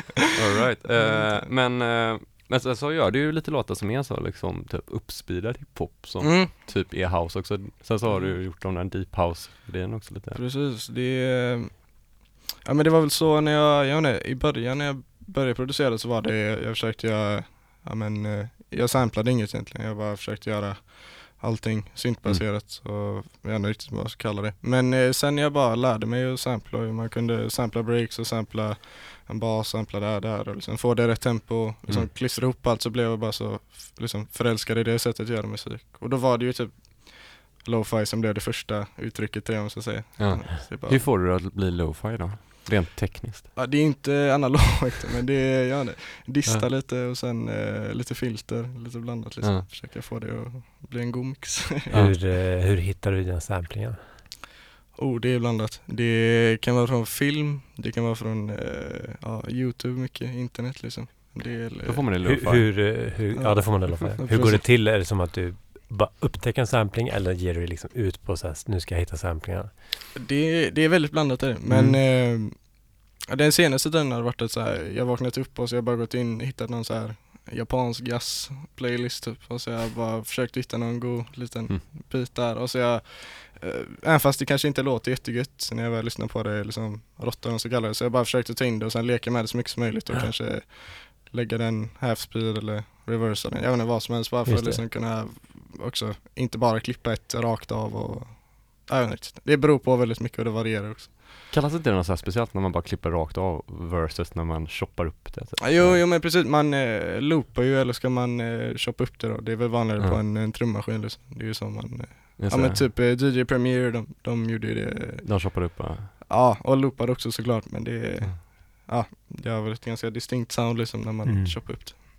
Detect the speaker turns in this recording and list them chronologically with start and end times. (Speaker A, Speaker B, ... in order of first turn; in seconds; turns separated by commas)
Speaker A: 0.3-10.4, Speaker B: 0.9-1.5, Speaker B: 6.2-6.5, Speaker B: 8.1-8.4, Speaker B: 10.3-41.0, Speaker A: 40.2-43.5, Speaker B: 43.5-51.9, Speaker A: 49.4-49.7, Speaker A: 51.9-52.2, Speaker C: 51.9-54.0, Speaker B: 55.0-62.0, Speaker A: 61.8-63.0, Speaker C: 62.2-69.7, Speaker B: 63.4-64.7, Speaker B: 70.2-101.2, Speaker A: 71.7-72.0, Speaker C: 94.5-94.8, Speaker A: 101.5-106.0, Speaker B: 105.6-122.0, Speaker A: 112.4-112.8, Speaker A: 115.2-116.1, Speaker C: 121.2-122.0